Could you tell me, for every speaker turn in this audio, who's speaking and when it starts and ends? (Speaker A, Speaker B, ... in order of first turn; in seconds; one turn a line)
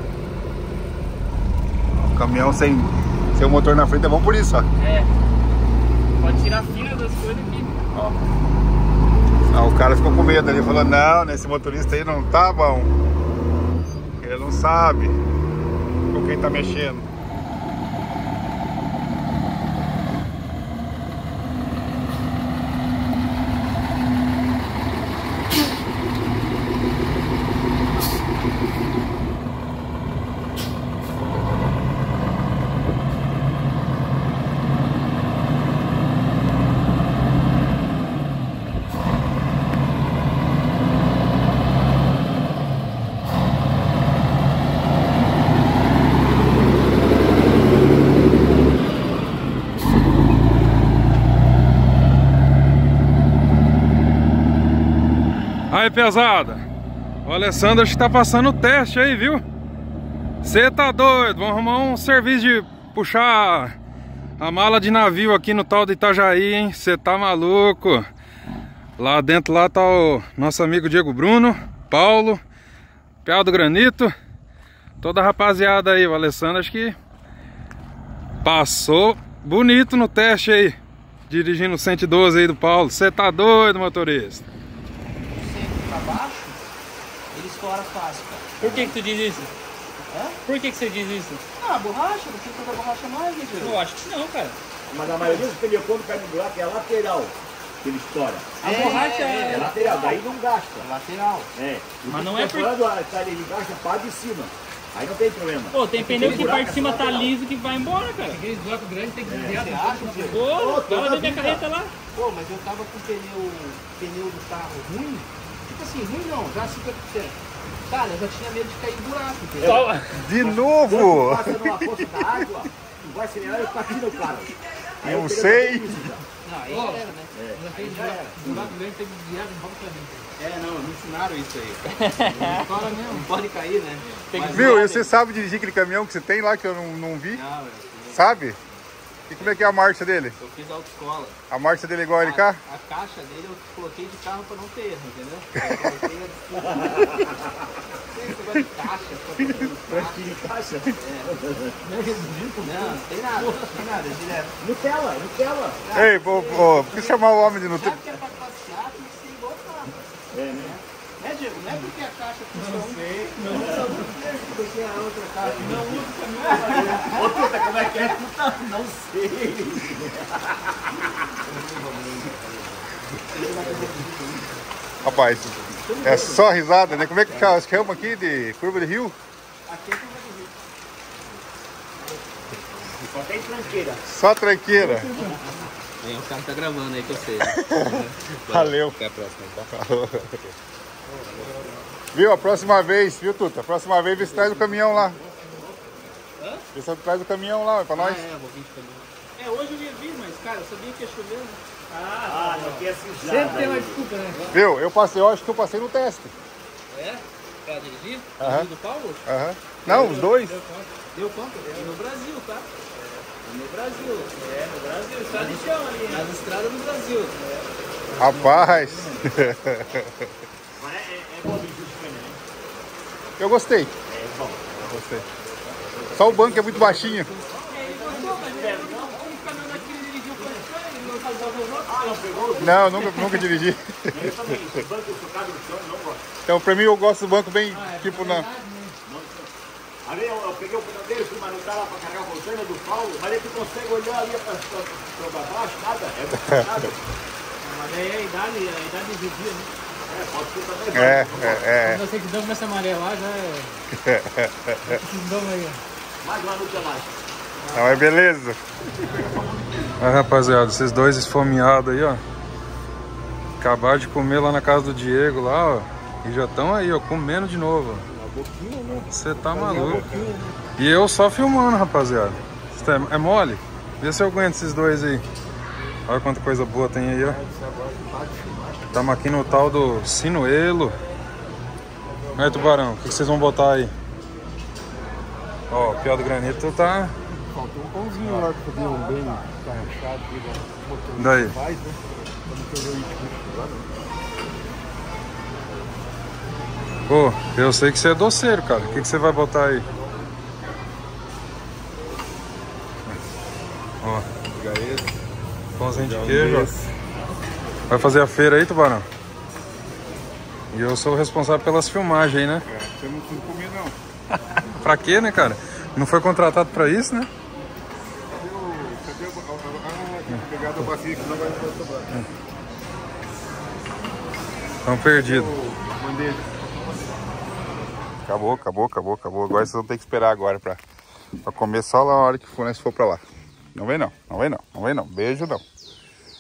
Speaker A: 1.9-4.7
Speaker B: 6.2-7.7
Speaker A: 9.5-12.9
Speaker A: 14.2-15.2
Speaker A: 16.1-17.1
Speaker C: 55.7-56.6
Speaker C: 57.2-59.4
Speaker C: 60.4-63.7
Speaker C: 64.4-68.0
Speaker C: 69.0-72.4
Speaker C: 73.2-74.1
Speaker C: 75.0-77.0
Speaker C: 78.4-80.8
Speaker C: 81.3-84.5
Speaker D: 85.2-86.7
Speaker D: 87.3-88.6
Speaker E: 88.6-89.5
Speaker F: 88.6-88.9
Speaker D: 90.1-90.4
Speaker E: 90.4-91.4
Speaker D: 91.6-93.8
Speaker B: 93.6-94.5
Speaker F: 94.9-100.9
Speaker D: 95.1-95.4
Speaker D: 98.6-100.2
Speaker B: 98.6-100.0
Speaker E: 98.8-99.4
Speaker D: 100.8-101.5
Speaker F: 101.5-107.3
Speaker B: 102.1-102.7
Speaker B: 105.7-108.4
Speaker D: 106.1-106.6
Speaker E: 108.3-110.4
Speaker F: 109.3-111.7
Speaker D: 109.5-110.5
Speaker B: 110.2-111.9
Speaker D: 112.1-117.4
Speaker D: 117.9-119.9
Speaker E: 119.6-120.1
Speaker A: 120.1-122.2
Speaker F: 120.5-126.2
Speaker D: 123.4-124.3
Speaker A: 125.0-126.0
Speaker D: 126.4-128.6
Speaker E: 126.7-130.3
Speaker F: 127.3-128.7
Speaker D: 130.4-135.1
Speaker E: 132.4-133.3
Speaker E: 134.3-134.8
Speaker A: 134.5-137.4
Speaker D: 137.3-138.4
Speaker A: 138.1-138.6
Speaker A: 139.3-140.4
Speaker D: 139.4-139.7
Speaker D: 140.4-141.4
Speaker A: 141.5-142.6
Speaker D: 142.2-147.3
Speaker F: 146.6-147.5
Speaker D: 148.1-150.4
Speaker F: 149.9-151.8
Speaker D: 150.9-154.6
Speaker F: 152.5-153.6
Speaker F: 154.6-155.8
Speaker D: 155.8-160.0
Speaker A: 155.9-158.0
Speaker F: 160.3-160.8
Speaker D: 160.6-168.2
Speaker E: 162.7-162.9
Speaker F: 163.4-164.1
Speaker F: 165.4-171.1
Speaker F: 171.8-172.5
Speaker F: 173.3-174.5
Speaker D: 173.3-173.8
Speaker A: 175.0-179.2
Speaker D: 175.8-176.4
Speaker F: 176.1-176.3
Speaker D: 177.3-177.6
Speaker D: 179.7-180.5
Speaker D: 182.1-183.0
Speaker F: 183.0-184.0
Speaker A: 184.1-185.1
Speaker F: 184.8-185.4
Speaker D: 186.0-189.7
Speaker A: 187.4-189.0
Speaker A: 189.7-190.4
Speaker D: 191.1-191.8
Speaker A: 192.1-195.2
Speaker D: 194.2-195.5
Speaker D: 196.4-196.7
Speaker A: 196.7-198.3
Speaker D: 197.9-203.8
Speaker F: 202.2-204.0
Speaker E: 203.2-204.4
Speaker D: 204.3-204.6
Speaker A: 204.5-206.3
Speaker D: 206.9-209.3
Speaker A: 208.4-208.7
Speaker A: 209.2-210.6
Speaker D: 209.8-217.6
Speaker F: 215.3-216.4
Speaker D: 218.2-219.4
Speaker A: 218.2-220.3
Speaker F: 220.8-222.4
Speaker A: 223.4-223.9
Speaker F: 224.1-225.2
Speaker A: 224.8-225.2
Speaker F: 225.8-227.4
Speaker A: 226.1-227.3
Speaker D: 226.5-233.5
Speaker E: 227.7-230.7
Speaker F: 227.9-229.2
Speaker F: 231.8-233.2
Speaker A: 232.6-234.6
Speaker F: 234.1-236.2
Speaker A: 236.5-238.5
Speaker E: 237.7-238.9
Speaker F: 239.1-239.5
Speaker F: 240.1-247.0
Speaker D: 247.6-249.7
Speaker F: 250.1-251.7
Speaker A: 250.9-252.0
Speaker E: 251.8-253.7
Speaker A: 253.9-255.0
Speaker E: 254.9-255.8
Speaker F: 256.2-257.1
Speaker D: 257.6-258.1
Speaker A: 257.7-258.6
Speaker F: 259.0-259.9
Speaker C: 260.0-262.2
Speaker C: 263.6-268.1
Speaker C: 269.1-270.1
Speaker A: 269.6-270.3
Speaker D: 269.7-270.1
Speaker F: 269.7-270.0
Speaker C: 270.8-275.2
Speaker C: 276.1-277.4
Speaker A: 277.2-278.4
Speaker C: 278.9-281.0
Speaker C: 282.4-283.9
Speaker C: 285.7-287.1
Speaker A: 287.5-290.0
Speaker F: 288.4-289.4
Speaker A: 290.6-292.0
Speaker C: 291.2-291.6
Speaker A: 292.6-293.6
Speaker C: 297.1-299.9
Speaker A: 298.7-300.6
Speaker A: 304.5-305.1
Speaker C: 305.8-306.7
Speaker A: 305.9-306.9
Speaker C: 307.9-309.1
Speaker C: 310.7-312.6
Speaker A: 312.7-314.0
Speaker C: 314.8-317.3
Speaker A: 318.3-322.3
Speaker C: 324.9-325.5
Speaker A: 325.1-326.7
Speaker A: 328.2-330.8
Speaker A: 331.4-335.6